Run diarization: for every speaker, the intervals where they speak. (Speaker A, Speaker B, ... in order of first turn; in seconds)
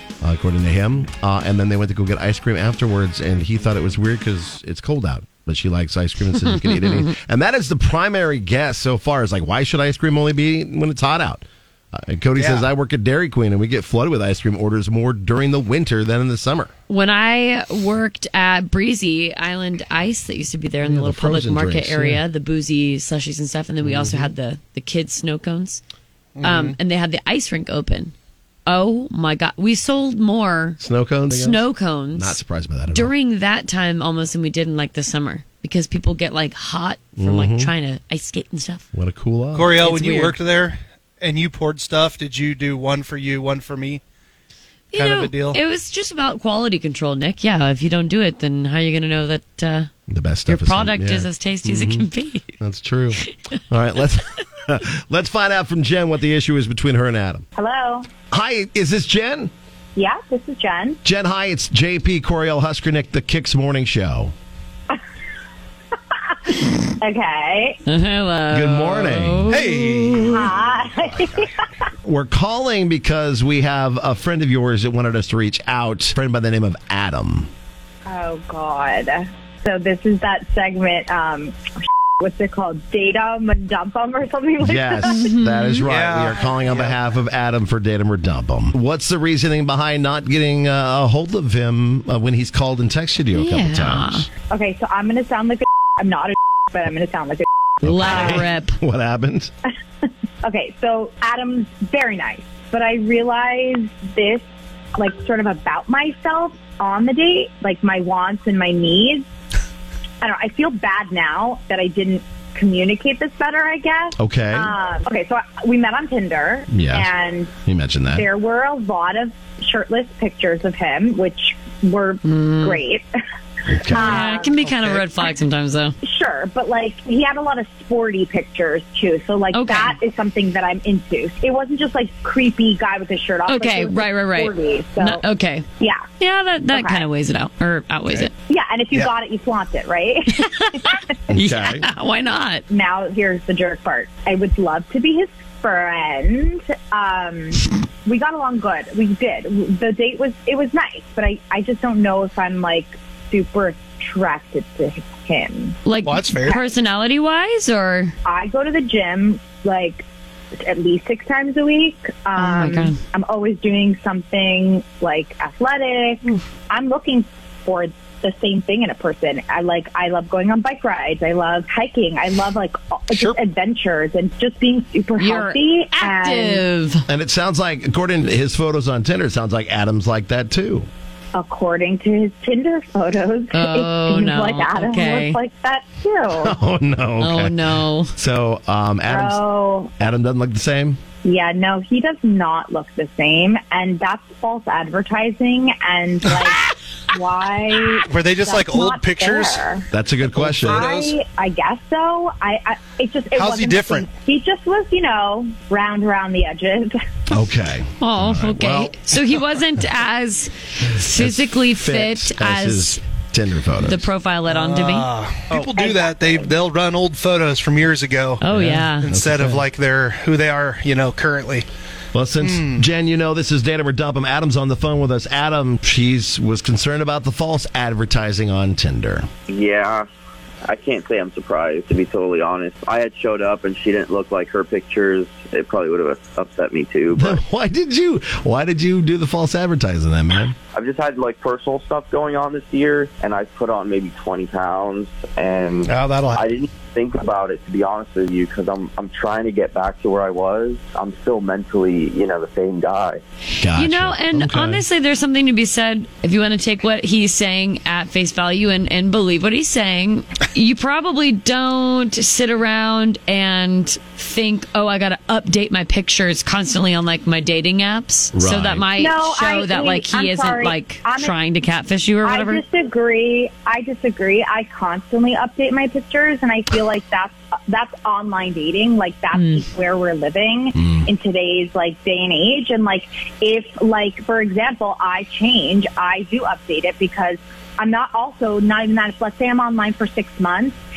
Speaker A: 0.2-16.7, 20.8-22.2, 23.8-24.3, 30.8-33.1, 37.2-37.7, 38.9-39.8, 50.1-52.1, 52.6-57.5, 58.3-59.5, 61.0-64.3, 68.5-69.4, 72.0-77.5, 84.6-94.2, 97.8-99.5, 114.2-114.7, 116.7-117.1, 117.6-118.3, 123.7-124.2, 141.3-141.8, 177.1-180.9, 186.3-189.4, 190.0-191.0, 199.9-200.9, 207.3-209.1, 211.1-214.1, 218.5-219.6, 222.1-229.3, 237.1-240.5, 253.6-254.8, 268.3-268.9, 280.8-281.1
Speaker B: 12.3-12.7, 26.4-26.8, 39.5-44.0, 44.9-45.6, 69.5-71.5, 85.8-86.9, 156.0-156.6, 173.1-173.4, 198.1-199.7, 200.2-201.2, 203.3-204.1, 214.5-221.7, 222.4-222.9, 245.8-246.5
Speaker C: 16.9-25.8, 26.4-28.1, 28.6-32.4, 32.9-38.9, 39.8-40.4, 44.9-49.9, 50.5-52.5, 53.2-53.5, 67.8-70.5, 85.0-85.9, 93.3-94.2, 97.8-98.8, 122.2-122.8, 123.9-126.0, 129.5-129.9, 133.5-135.7, 136.2-138.3, 140.3-142.6, 155.8-158.1, 162.3-163.0, 175.2-177.0, 183.5-185.4, 187.2-188.1, 208.0-213.0, 213.8-215.1, 218.4-219.1, 253.7-272.6, 279.3-279.6
Speaker D: 57.5-58.1, 60.0-61.0, 67.0-67.8, 70.3-71.5, 78.1-81.5, 82.6-85.2, 94.5-97.5, 100.4-104.4, 105.0-109.2, 110.2-117.5, 118.1-123.0, 123.9-124.6, 126.0-135.2, 136.7-137.0, 138.5-140.4, 142.7-155.8, 158.2-160.0, 160.6-176.6, 181.3-186.5, 189.1-189.9, 191.2-196.6, 197.1-199.8, 200.7-206.9, 215.7-216.5, 269.0-271.3, 272.2-290.7
Speaker E: 229.5-230.1, 230.6-237.4, 240.7-253.2